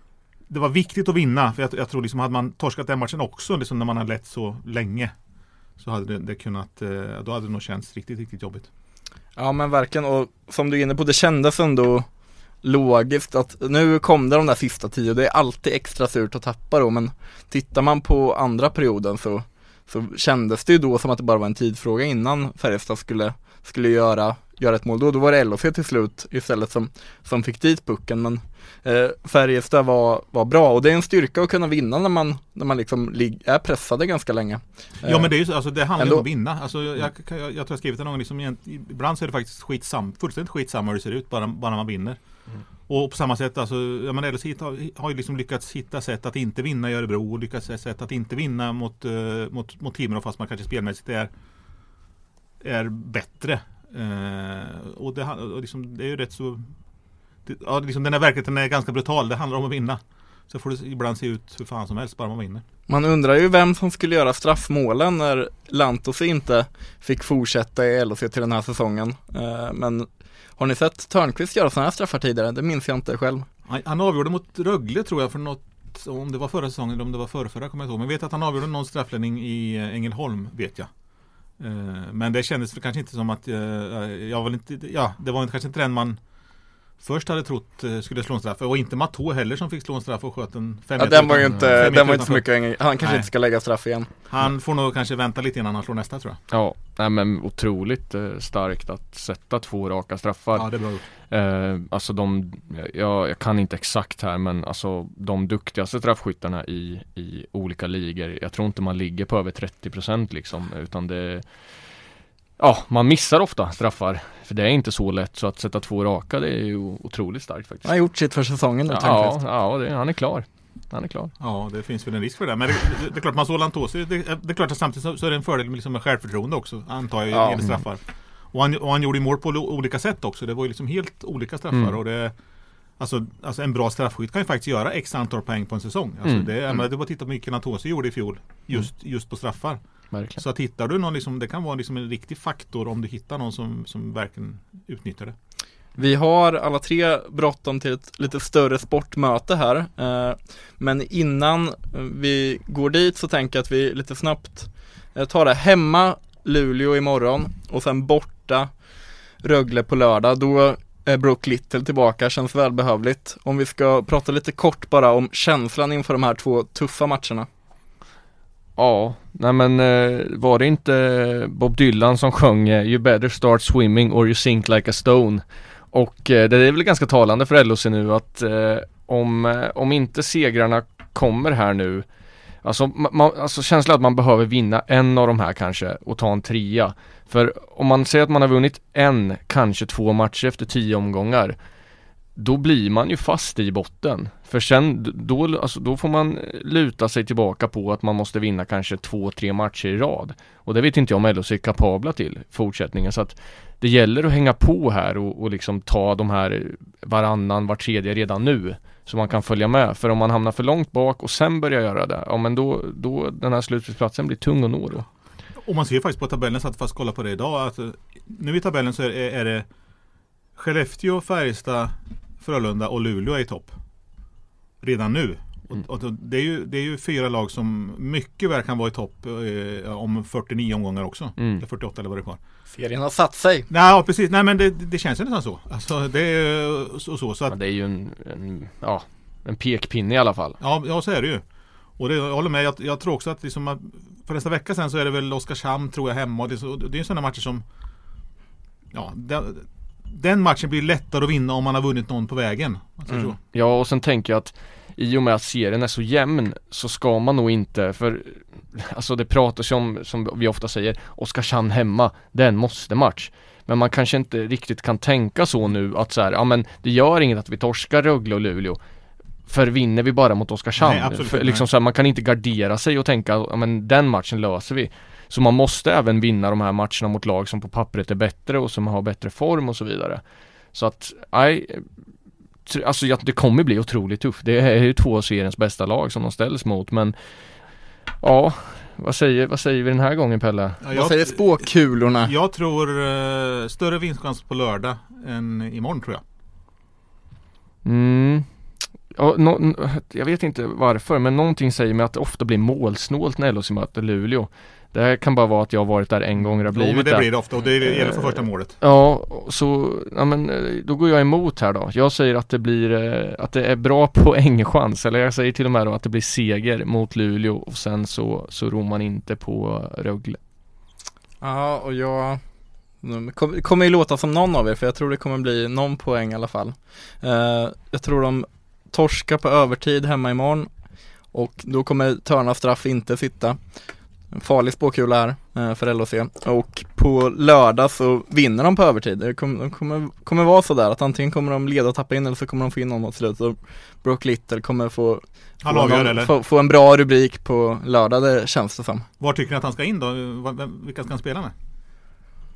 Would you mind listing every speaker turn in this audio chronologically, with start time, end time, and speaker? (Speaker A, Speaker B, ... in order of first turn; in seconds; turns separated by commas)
Speaker A: 0.5-5.1, Speaker A: 5.8-8.7, Speaker B: 9.3-12.0, Speaker B: 12.6-35.3, Speaker A: 35.0-42.2, Speaker B: 36.0-36.2, Speaker A: 42.9-51.3, Speaker A: 52.6-56.7, Speaker A: 57.5-62.6, Speaker B: 62.9-73.5, Speaker A: 73.7-80.9, Speaker A: 81.6-86.2, Speaker A: 87.0-92.5, Speaker B: 91.0-94.1, Speaker A: 93.0-93.3, Speaker A: 94.3-96.4, Speaker C: 96.5-100.7, Speaker A: 100.5-101.1, Speaker C: 101.3-111.5, Speaker C: 112.6-117.9, Speaker B: 117.8-119.4, Speaker C: 118.9-121.3, Speaker A: 121.4-132.3, Speaker B: 127.3-127.6, Speaker A: 133.0-139.8, Speaker C: 140.1-140.4, Speaker A: 140.4-145.3, Speaker B: 146.0-158.7, Speaker B: 159.4-167.5, Speaker C: 168.8-182.1, Speaker C: 182.6-191.6, Speaker C: 192.3-215.1, Speaker A: 215.6-219.7, Speaker A: 220.6-223.7, Speaker A: 224.8-232.4, Speaker C: 231.4-231.6, Speaker B: 232.7-233.7, Speaker A: 233.7-237.6, Speaker C: 237.5-240.6, Speaker A: 240.6-241.4, Speaker A: 242.0-247.6, Speaker A: 248.9-253.4, Speaker C: 253.5-268.8, Speaker C: 269.5-280.2, Speaker A: 270.8-271.7, Speaker C: 280.7-281.8, Speaker C: 282.6-287.1, Speaker C: 288.2-290.8, Speaker A: 290.8-291.7, Speaker B: 290.9-292.3, Speaker A: 292.2-296.2, Speaker C: 297.8-298.4, Speaker C: 299.1-307.3, Speaker A: 306.6-308.8, Speaker C: 307.8-320.4, Speaker B: 321.4-322.4, Speaker B: 323.0-330.7, Speaker B: 331.3-333.6, Speaker B: 334.3-349.1, Speaker A: 345.6-346.3, Speaker A: 349.2-351.5